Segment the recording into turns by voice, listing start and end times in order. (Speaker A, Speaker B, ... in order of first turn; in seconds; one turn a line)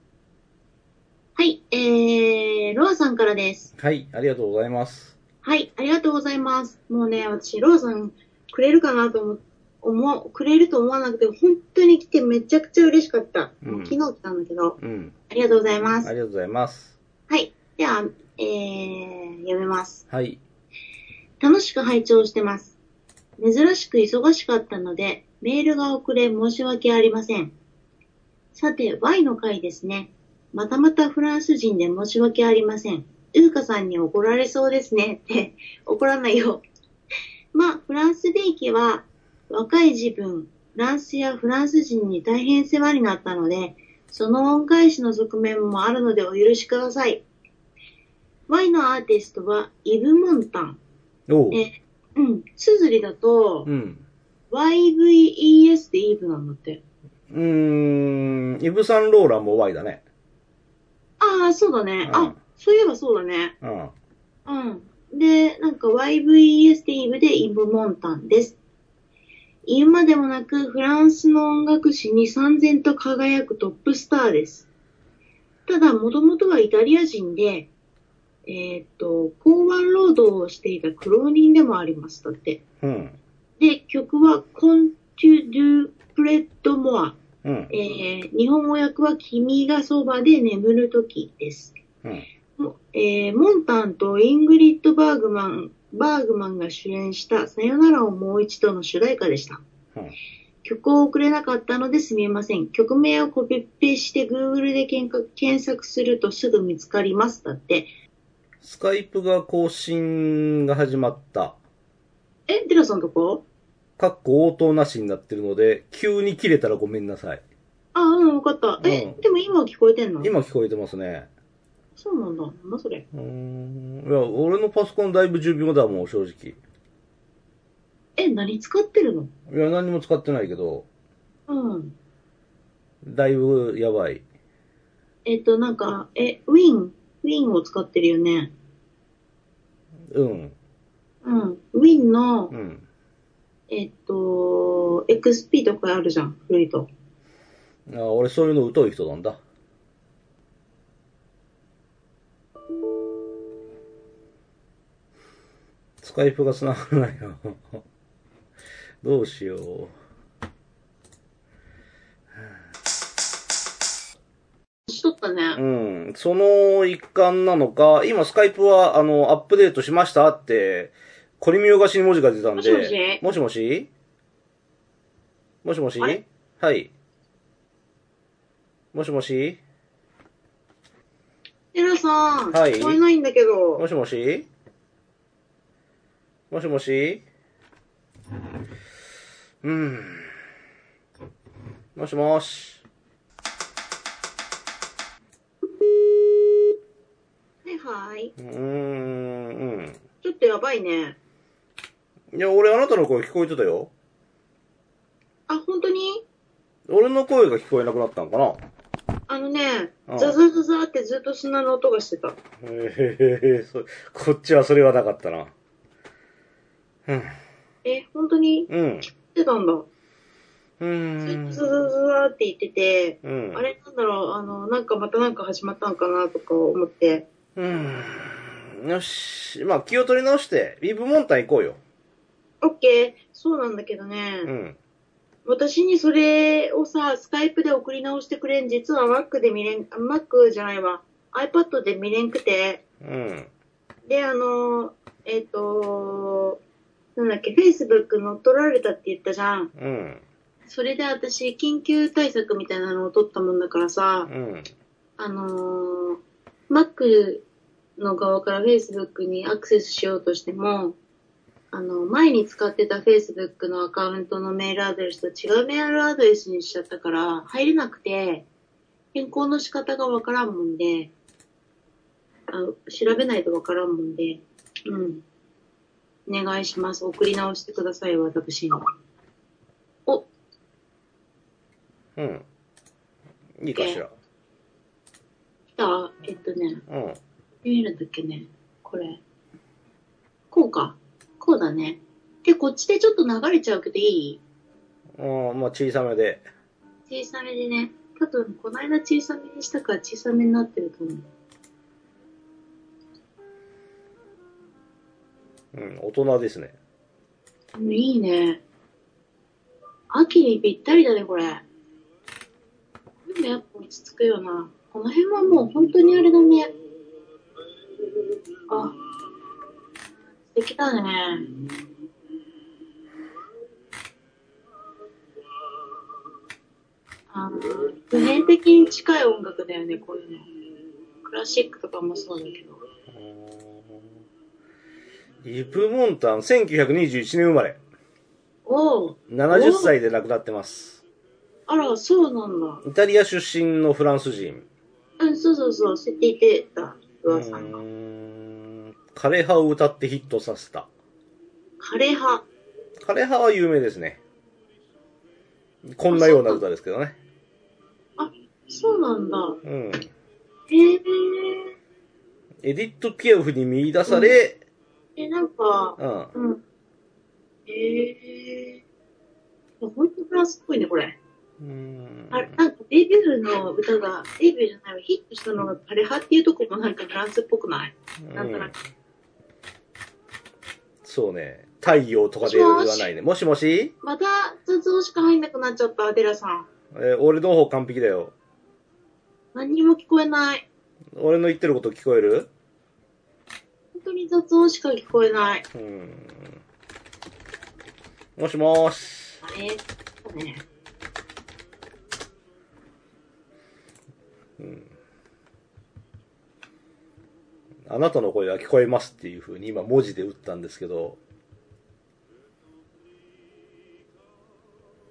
Speaker A: 1.4-3.7
Speaker B: 3.8-5.2
Speaker A: 5.4-14.8
Speaker B: 13.6-14.0
Speaker B: 14.8-15.1
Speaker A: 15.3-16.1
Speaker B: 16.0-17.0
Speaker A: 17.3-20.0
Speaker B: 20.1-20.4
Speaker A: 21.4-22.8
Speaker A: 23.4-27.5
Speaker A: 28.6-36.6
Speaker A: 37.5-47.2
Speaker A: 48.5-50.8
Speaker B: 51.3-51.6
Speaker A: 51.5-53.7
Speaker B: 53.7-54.0
Speaker A: 54.5-56.8
Speaker B: 57.3-60.0
Speaker A: 61.2-63.5
Speaker B: 62.1-62.4
Speaker B: 63.6-63.9
Speaker A: 64.5-68.6
Speaker A: 69.7-74.7
Speaker A: 75.7-77.7
Speaker A: 78.5-82.6
Speaker B: 82.8-83.2
Speaker A: 83.6-87.2
Speaker B: 87.4-87.7
Speaker A: 87.7-91.8
Speaker A: 92.6-99.6
Speaker A: 100.6-107.9
Speaker B: 108.6-111.6
Speaker A: 112.5-113.4
Speaker B: 114.0-117.4
Speaker A: 117.9-120.3
Speaker B: 118.8-119.2
Speaker B: 120.2-121.3
Speaker A: 122.0-123.0
Speaker B: 123.1-126.6
Speaker A: 128.2-129.3
Speaker B: 129.5-130.9
Speaker A: 131.5-131.9
Speaker B: 133.0-134.2
Speaker A: 135.3-138.5
Speaker B: 140.1-140.6
Speaker A: 141.2-142.5
Speaker B: 142.5-142.8
Speaker A: 143.7-146.9
Speaker B: 147.9-149.4
Speaker B: 156.0-157.8
Speaker B: 159.0-159.9
Speaker A: 164.9-165.6
Speaker B: 165.6-173.9
Speaker A: 172.6-173.2
Speaker B: 175.6-176.9
Speaker B: 178.9-179.6
Speaker A: 181.7-183.8
Speaker B: 182.5-183.0
Speaker B: 183.8-184.5
Speaker B: 186.5-187.2
Speaker B: 189.6-190.3
Speaker B: 192.0-192.8
Speaker A: 197.6-198.3
Speaker B: 198.4-200.0
Speaker A: 200.2-201.2
Speaker B: 202.3-203.9
Speaker A: 205.5-206.2
Speaker B: 206.9-208.6
Speaker A: 209.3-212.4
Speaker B: 210.1-210.4
Speaker B: 212.6-215.5
Speaker B: 217.1-217.3
Speaker A: 217.8-219.9
Speaker B: 218.7-219.1
Speaker B: 220.8-221.6
Speaker A: 221.2-227.2
Speaker B: 223.2-223.7
Speaker B: 227.6-231.8
Speaker A: 232.6-234.5
Speaker B: 234.4-234.8
Speaker A: 235.4-242.8
Speaker B: 243.0-243.5
Speaker A: 244.1-246.6
Speaker A: 247.2-249.7
Speaker B: 249.8-250.2
Speaker A: 250.7-254.3
Speaker B: 254.3-254.7
Speaker A: 255.2-257.4
Speaker A: 258.0-261.0
Speaker A: 261.7-268.4
Speaker A: 269.1-271.1
Speaker A: 272.5-275.2
Speaker A: 276.3-278.8
Speaker B: 282.2-282.4
Speaker B: 283.6-284.1
Speaker A: 283.8-284.0
Speaker A: 285.8-286.8
Speaker B: 286.9-287.2
Speaker A: 287.6-289.2
Speaker A: 290.5-294.4
Speaker B: 295.2-296.4
Speaker A: 297.1-301.2
Speaker B: 305.7-306.8
Speaker A: 307.8-308.6
Speaker A: 310.1-311.6
Speaker A: 313.3-316.7
Speaker A: 318.7-318.9
Speaker A: 320.5-321.5
Speaker A: 327.3-330.4
Speaker A: 331.2-332.8
Speaker B: 333.1-334.2
Speaker B: 335.4-337.8
Speaker A: 338.7-339.9
Speaker B: 339.3-341.0
Speaker A: 341.7-342.8
Speaker B: 342.8-344.7
Speaker A: 345.2-347.8
Speaker B: 347.3-350.9
Speaker A: 351.8-352.4
Speaker B: 353.0-354.2
Speaker B: 355.9-357.2
Speaker A: 356.1-356.6
Speaker A: 358.2-359.6
Speaker B: 359.6-360.1
Speaker A: 360.7-361.7
Speaker B: 362.6-364.6
Speaker A: 364.1-364.4
Speaker A: 365.2-366.6
Speaker B: 366.0-366.3
Speaker A: 367.7-368.8
Speaker A: 369.8-371.2
Speaker B: 371.6-372.5
Speaker A: 372.3-378.7
Speaker B: 378.2-378.8
Speaker B: 381.0-383.9
Speaker A: 382.4-383.1
Speaker A: 384.0-386.7
Speaker B: 386.9-388.3
Speaker A: 389.6-390.7
Speaker B: 391.2-392.5
Speaker A: 393.9-395.6
Speaker B: 395.7-396.6
Speaker B: 398.4-399.4
Speaker A: 399.4-400.6
Speaker B: 404.6-404.9
Speaker B: 407.9-411.2